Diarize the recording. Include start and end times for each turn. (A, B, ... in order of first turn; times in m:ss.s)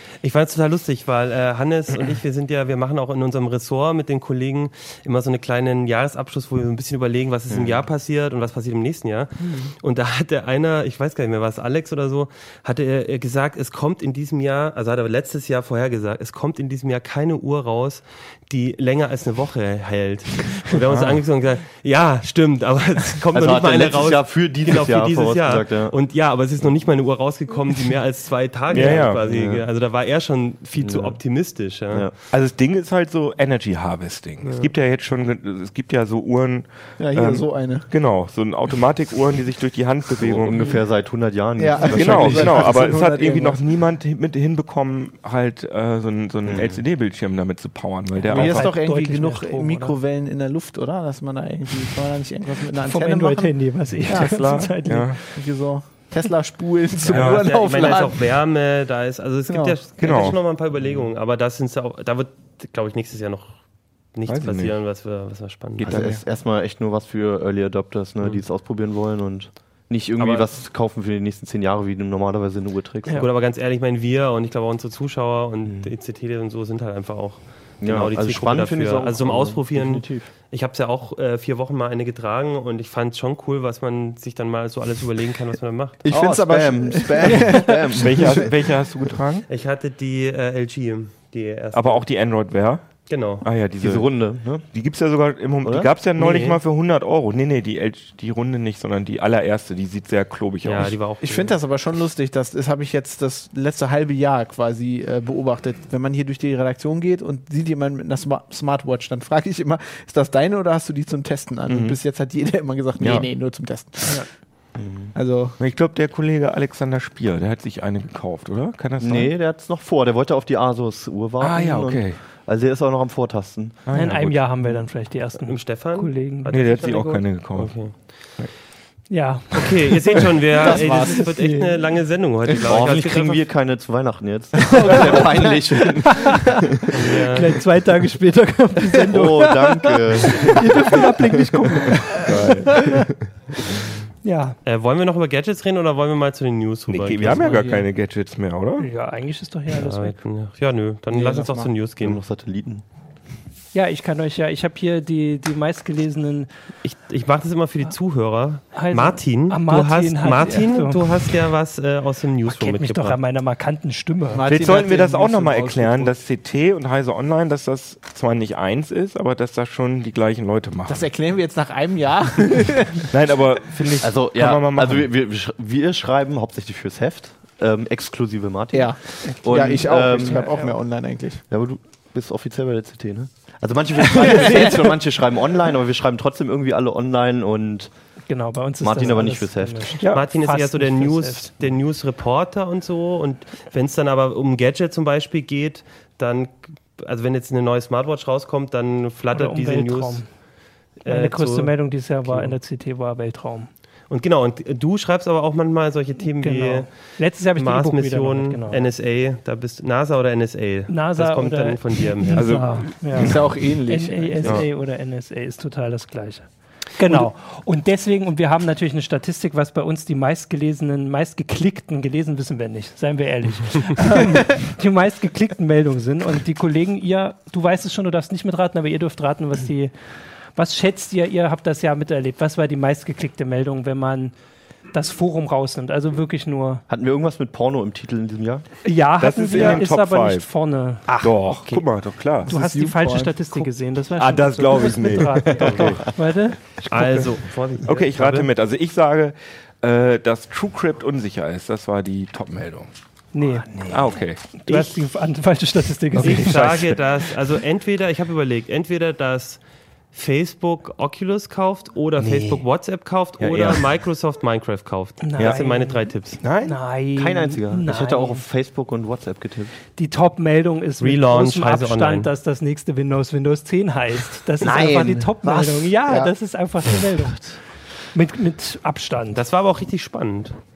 0:00.2-0:32.1 A
0:07.5-0:07.8 B
0:20.8-0:21.2 C
0:23.3-0:26.0 B
0:28.7-0:29.2 C
0:28.8-0:29.7 B
0:30.8-0:31.2 B
0:32.3-0:40.8 C
0:34.4-0:34.7 A
0:37.0-0:37.9 D
0:40.1-0:42.9 B
0:41.6-0:43.6 D
0:41.9-0:48.7 C
0:46.4-0:46.8 B
0:48.2-0:50.0 E
0:48.3-0:54.7 D
0:52.8-0:55.4 E
0:54.1-0:55.2 C
0:55.3-0:58.2 D
0:57.1-1:03.6 A
0:57.1-0:57.5 C
0:59.5-0:59.8 D
1:00.0-1:00.4 C
1:00.8-1:01.0 B
1:04.1-1:06.0 A
1:04.3-1:04.7 C
1:05.8-1:13.2 B
1:05.8-1:06.2 D
1:13.2-1:26.0 A
1:15.6-1:15.9 B
1:17.8-1:20.2 B
1:26.0-1:28.7 B
1:26.1-1:28.4 D
1:27.9-1:29.5 C
1:29.5-1:32.1 A
1:31.7-1:32.9 C
1:33.1-1:33.4 A
1:33.4-1:34.1 C
1:33.8-1:34.6 B
1:34.7-1:41.0 C
1:35.6-1:35.9 B
1:36.2-1:36.6 A
1:40.6-1:41.6 A
1:41.2-1:54.2 D
1:51.7-1:52.0 C
1:53.0-1:53.3 C
1:54.8-1:55.1 B
1:55.1-1:55.6 D
1:55.6-1:59.3 C
1:59.0-2:03.8 B
2:01.4-2:02.2 C
2:03.8-2:04.4 C
2:03.9-2:06.6 E
2:05.4-2:08.0 A
2:06.5-2:08.5 C
2:09.1-2:11.8 E
2:09.5-2:13.4 A
2:10.6-2:11.3 D
2:12.6-2:16.9 B
2:14.7-2:16.3 D
2:16.9-2:17.5 A
2:17.3-2:23.1 E
2:19.0-2:21.4 B
2:22.2-2:23.2 C
2:24.2-2:24.6 E
2:24.6-2:27.5 A
2:26.9-2:28.9 C
2:27.3-2:27.9 D
2:28.8-2:30.2 E
2:29.7-2:32.2 A
2:31.1-2:31.7 D
2:32.0-2:32.8 B
2:33.7-2:36.5 E
2:36.8-2:43.2 A
2:38.7-2:41.2 E
2:42.5-2:44.5 E
2:44.3-2:46.2 D
2:44.4-2:51.1 C
2:50.9-2:53.1 D
2:53.1-2:55.1 C
2:54.0-3:00.5 B
2:58.7-3:01.4 D
2:59.2-3:00.8 E
3:01.5-3:07.9 B
3:04.2-3:04.9 D
3:08.3-3:11.5 E
3:08.8-3:10.0 B
3:10.0-3:10.3 C
3:10.1-3:20.2 A
3:19.3-3:20.3 E
3:21.0-3:22.5 A
3:21.0-3:23.7 E
3:24.1-3:26.9 A
3:26.2-3:28.9 E
3:27.5-3:32.6 A
3:30.9-3:49.9 E
3:32.3-3:33.5 C
3:33.1-3:34.6 D
3:50.6-3:54.3 E
3:54.9-3:56.8 E
3:56.9-3:58.6 B
3:58.8-4:01.4 E
3:59.2-4:00.5 C
4:01.2-4:02.5 C
4:02.5-4:03.7 D
4:02.5-4:06.6 E
4:04.2-4:06.1 C
4:05.6-4:05.9 B
4:06.8-4:12.9 C
4:06.9-4:08.5 A
4:13.3-4:16.7 E
4:13.9-4:14.4 C
4:14.7-4:15.0 A
4:16.2-4:17.0 C
4:16.2-4:19.6 A
4:20.1-4:26.4 A
4:23.4-4:23.9 C
4:25.2-4:28.4 E
4:26.4-4:26.8 C
4:27.2-4:29.7 B
4:30.0-4:37.6 E
4:31.0-4:32.3 A
4:34.6-4:36.3 D
4:34.6-4:35.9 B
4:38.1-4:39.4 E
4:39.3-4:40.6 A